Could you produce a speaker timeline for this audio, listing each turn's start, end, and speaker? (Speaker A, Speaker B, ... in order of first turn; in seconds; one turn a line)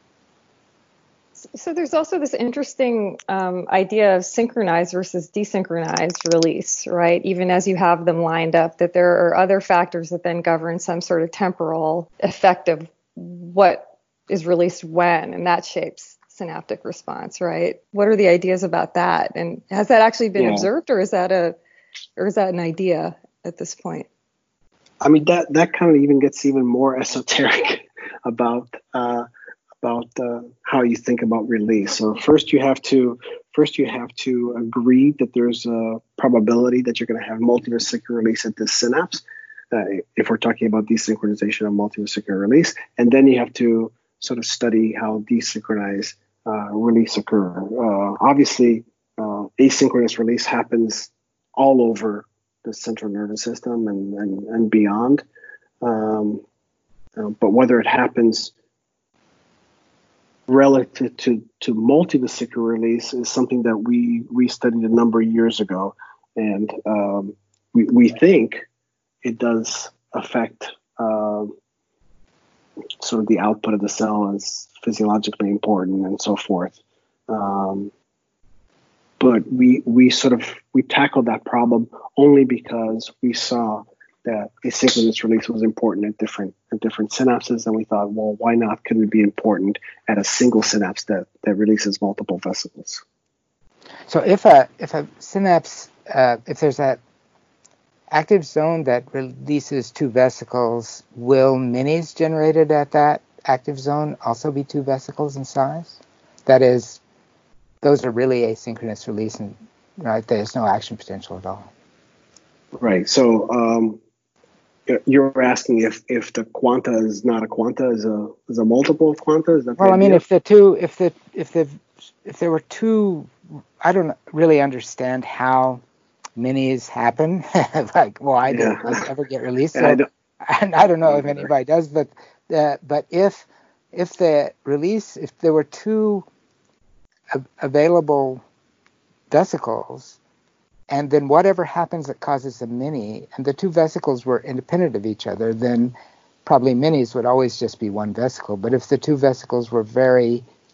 Speaker A: 1.5-21.6
Speaker B: 20.4-20.7
Speaker A: 22.2-24.1
Speaker B: 25.0-29.3
Speaker B: 29.8-55.2
Speaker B: 55.8-56.4
Speaker B: 57.2-58.5
Speaker B: 60.5-68.6
Speaker B: 69.2-71.5
Speaker B: 73.0-76.8
Speaker B: 77.3-77.9
Speaker B: 79.2-93.0
Speaker C: 94.1-97.0
Speaker C: 98.1-107.0
Speaker C: 107.8-111.7
Speaker B: 112.8-114.0
Speaker B: 114.9-120.2
Speaker C: 119.8-125.8
Speaker C: 126.4-136.2
Speaker B: 128.5-129.0
Speaker B: 129.8-130.1
Speaker B: 131.1-131.5
Speaker C: 137.3-138.4
Speaker C: 139.3-140.2
Speaker C: 140.9-145.9
Speaker C: 146.4-150.4